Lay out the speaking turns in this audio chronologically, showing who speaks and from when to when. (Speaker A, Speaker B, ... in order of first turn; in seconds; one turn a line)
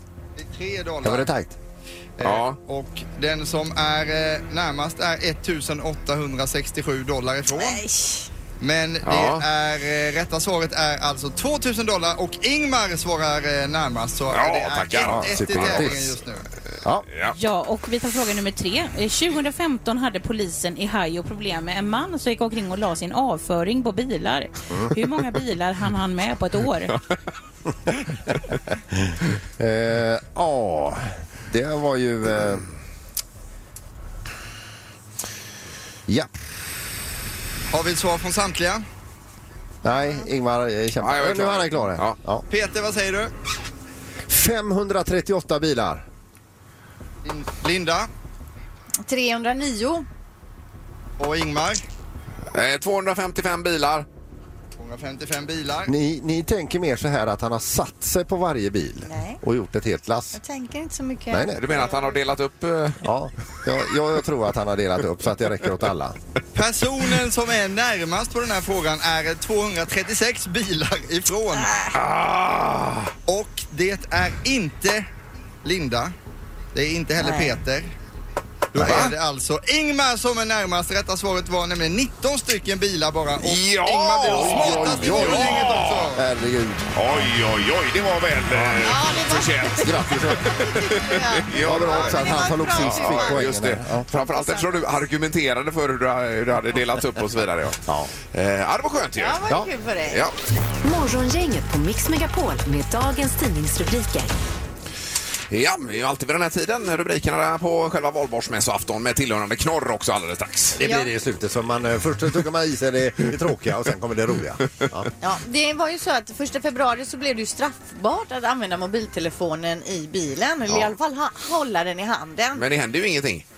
Speaker A: 0.4-1.3
Speaker B: 1.0-1.6
Speaker A: 2.2-7.8
Speaker C: 2.2-2.6
Speaker D: 7.5-8.3
Speaker A: 8.6-16.4
Speaker C: 9.1-9.4
Speaker C: 14.3-15.9
Speaker B: 15.0-16.1
Speaker C: 17.1-17.4
Speaker E: 17.3-27.0
Speaker B: 28.9-32.6
Speaker A: 37.7-38.8
Speaker B: 39.8-42.4
Speaker C: 41.0-42.2
Speaker A: 42.5-43.3
Speaker B: 44.3-46.0
Speaker A: 47.2-48.1
Speaker D: 49.0-50.1
Speaker A: 51.2-51.8
Speaker C: 52.5-54.1
Speaker A: 54.8-55.9
Speaker B: 55.9-60.4
Speaker D: 59.1-59.4
Speaker D: 60.3-62.2
Speaker B: 61.3-61.6
Speaker C: 61.6-63.0
Speaker B: 63.0-66.2
Speaker A: 66.5-71.7
Speaker D: 71.6-71.9
Speaker C: 71.9-73.1
Speaker A: 73.3-75.1
Speaker A: 75.6-76.1
Speaker A: 76.7-77.9
Speaker D: 77.2-77.6
Speaker A: 78.7-86.2
Speaker C: 78.8-79.1
Speaker B: 78.8-79.1
Speaker C: 83.4-86.1
Speaker B: 84.3-87.3
Speaker C: 86.9-99.5
Speaker B: 88.5-88.9
Speaker D: 88.8-93.5
Speaker B: 89.8-90.6
Speaker B: 91.5-94.1
Speaker D: 94.1-94.9
Speaker B: 97.9-98.1
Speaker D: 99.2-100.2
Speaker C: 100.1-100.3
Speaker F: 100.8-104.3
Speaker C: 105.5-110.8
Speaker B: 110.8-115.1
Speaker D: 110.8-111.1
Speaker D: 115.2-122.6
Speaker C: 122.5-123.5